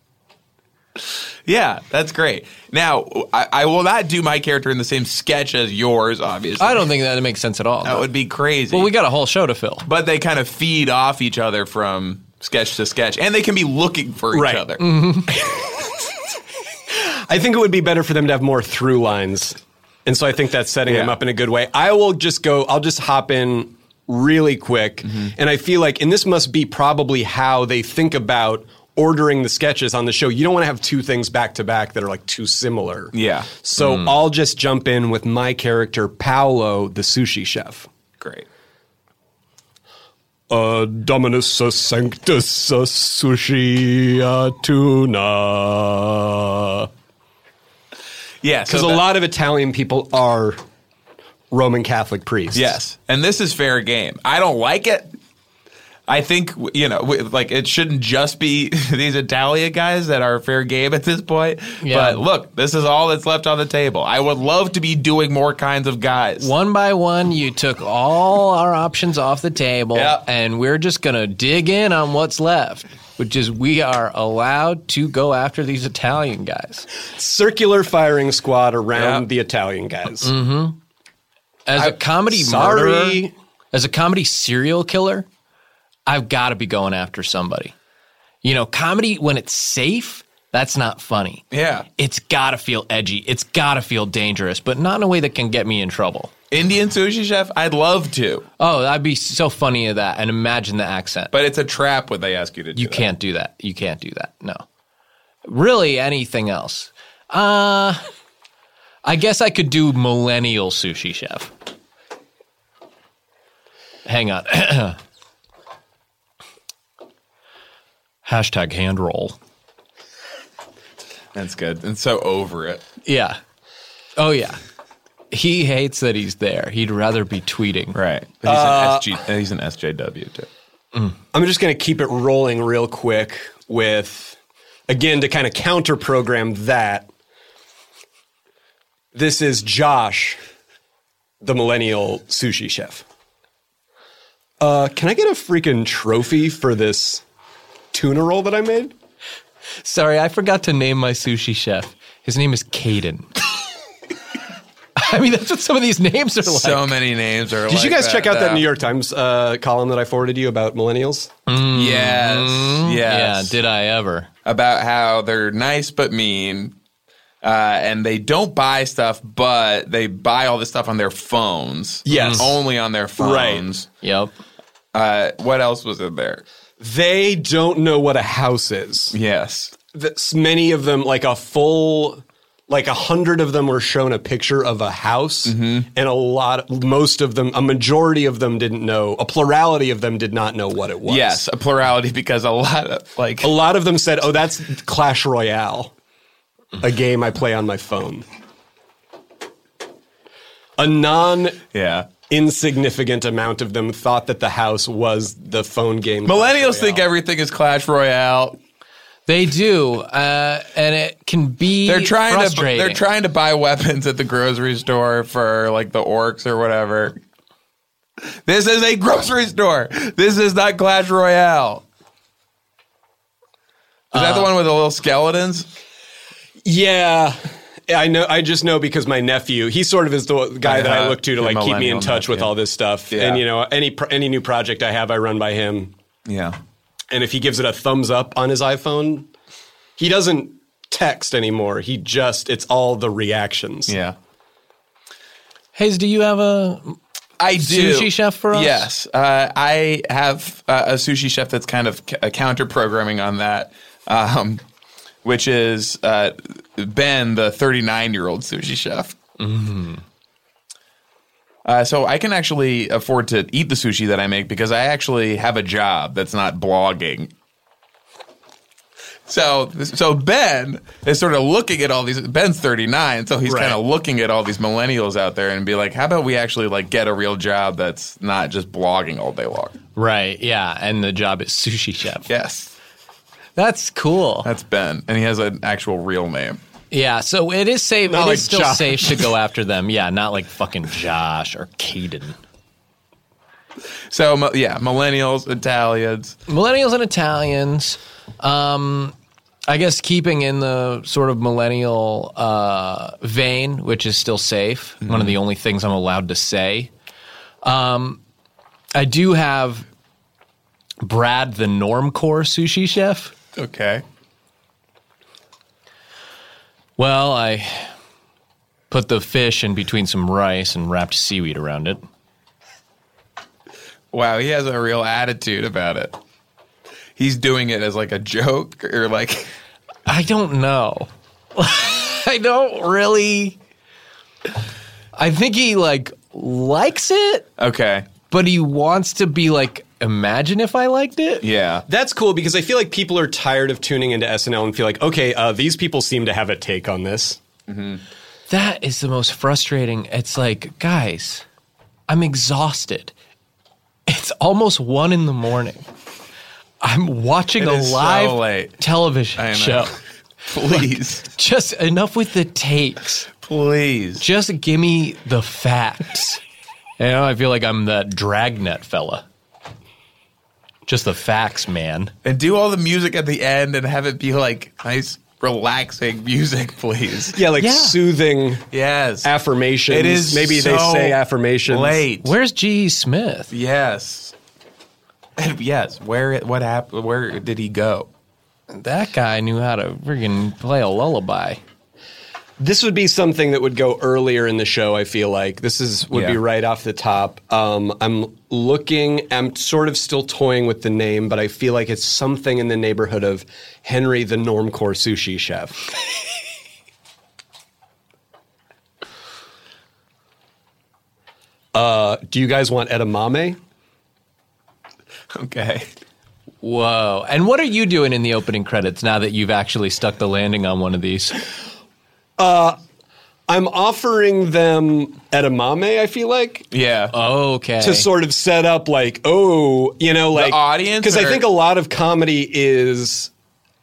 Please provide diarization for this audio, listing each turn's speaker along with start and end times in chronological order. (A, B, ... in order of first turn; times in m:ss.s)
0:01.4-0:06.9 A
0:06.6-0:08.1 B
0:07.8-0:08.9 A
0:08.7-0:09.9 B
0:09.9-0:14.8 A
0:14.3-0:14.6 C
0:14.8-0:15.3 B
0:15.3-0:16.1 C
0:16.9-0:37.9 C
0:20.9-0:21.1 A
0:33.1-0:34.1 A
0:38.2-0:38.4 A
0:40.5-0:46.9 C
0:48.4-0:49.0 A
0:48.7-0:50.6 C
0:51.5-0:52.8 C
0:52.5-0:55.1 A
0:56.1-1:06.5 A
1:01.8-1:02.2 B
1:06.4-1:16.9 B
1:09.9-1:10.2 A
1:17.2-1:20.3 C
1:18.9-1:19.2 A
1:20.2-1:20.8 B
1:21.7-1:25.3 B
1:21.8-1:23.3 C
1:26.1-1:27.7 B
1:28.4-1:31.4 B
1:31.5-1:31.9 A
1:32.0-1:36.3 B
1:36.5-1:38.4 A
1:38.6-1:41.3 B
1:41.3-1:43.1 A
1:42.8-1:44.6 B
1:45.4-1:48.0 B
1:49.0-1:51.5 B
1:54.0-1:55.0 B
1:58.2-1:59.4 B
2:01.3-2:02.8 A
2:03.0-2:03.4 B
2:04.2-2:04.6 B
2:05.3-2:08.0 B
2:07.9-2:10.5 A
2:08.4-2:09.1 C
2:11.3-2:17.1 C
2:19.1-2:20.4 C
2:21.4-2:23.0 C
2:24.6-2:27.2 C
2:27.9-2:28.9 C
2:29.8-2:33.3 B
2:35.0-2:36.9 B
2:36.4-2:38.7 A
2:37.7-2:41.3 C
2:41.5-2:44.3 B
2:41.6-2:43.6 A
2:44.4-2:46.7 A
2:47.4-2:53.9 A
2:52.1-2:52.6 C
2:52.1-2:52.4 B
2:53.2-2:53.7 C
2:54.0-2:54.3 B
2:54.9-2:56.4 A
2:56.8-2:59.1 C
2:59.1-2:59.7 A
2:59.9-3:11.4 C
3:05.4-3:05.9 A
3:11.1-3:13.5 A
3:13.4-3:15.9 C
3:16.8-3:18.2 C
3:20.8-3:21.6 C
3:21.7-3:22.1 A
3:22.3-3:27.0 C
3:26.2-3:28.6 A
3:29.3-3:33.0 B
3:31.8-3:37.2 A
3:38.2-3:41.8 A
3:44.1-3:44.5 B
3:44.1-3:45.7 A
3:46.6-3:55.9 C
3:50.6-3:52.5 A
3:53.1-3:53.4 A
3:56.2-3:56.6 A
3:57.1-3:59.3 C
4:00.0-4:04.0 C
4:03.9-4:04.2 A
4:05.8-4:07.0 B
4:07.4-4:14.6 A
4:07.5-4:08.9 B
4:15.2-4:19.2 A
4:19.4-4:20.0 B
4:21.6-4:27.3 A
4:29.3-4:39.8 A
4:33.5-4:33.8 C
4:40.0-4:42.3 B
4:42.3-4:42.7 A
4:43.6-4:44.5 B
4:44.4-4:46.6 A
4:46.9-4:52.4 B
4:48.1-4:49.3 C
4:54.1-4:56.4 A
4:56.5-4:59.1 B
4:59.7-5:06.9 B
5:05.0-5:05.4 A
5:07.6-5:08.2 B
5:08.9-5:09.9 B
5:11.0-5:13.3 B
5:13.6-5:14.0 A
5:17.0-5:17.9 B
5:18.9-5:22.0 B
5:24.1-5:26.2 A
5:27.2-5:29.5 A
5:30.1-5:33.6 B
5:35.2-5:37.5 B
5:37.6-5:38.1 A
5:38.3-5:41.5 B
5:41.4-5:41.8 A
5:41.9-5:47.4 C
5:47.7-5:48.0 A
5:48.5-5:51.4 B
5:52.1-5:53.1 B
5:54.1-5:55.8 B
5:56.8-5:59.9 B
5:57.6-6:01.3 A
6:01.3-6:03.3 B
6:03.4-6:04.2 A
6:04.2-6:06.4 B
6:07.0-6:09.2 B
6:10.9-6:12.1 B
6:12.2-6:17.4 A
6:17.4-6:18.7 C
6:17.6-6:18.0 B
6:18.7-6:19.3 A
6:19.2-6:22.1 C
6:19.9-6:22.3 A
6:22.2-6:23.5 B
6:23.5-6:24.3 A
6:25.4-6:28.1 A
6:28.7-6:31.6 B
6:32.6-6:45.8 C
6:36.1-6:36.4 A
6:51.7-6:53.6 C
6:55.3-6:55.9 A
6:56.6-7:01.4 B
7:02.4-7:02.8 C
7:03.5-7:06.7 C
7:06.7-7:07.1 A
7:07.1-7:08.1 B
7:07.8-7:13.3 C
7:10.3-7:11.4 A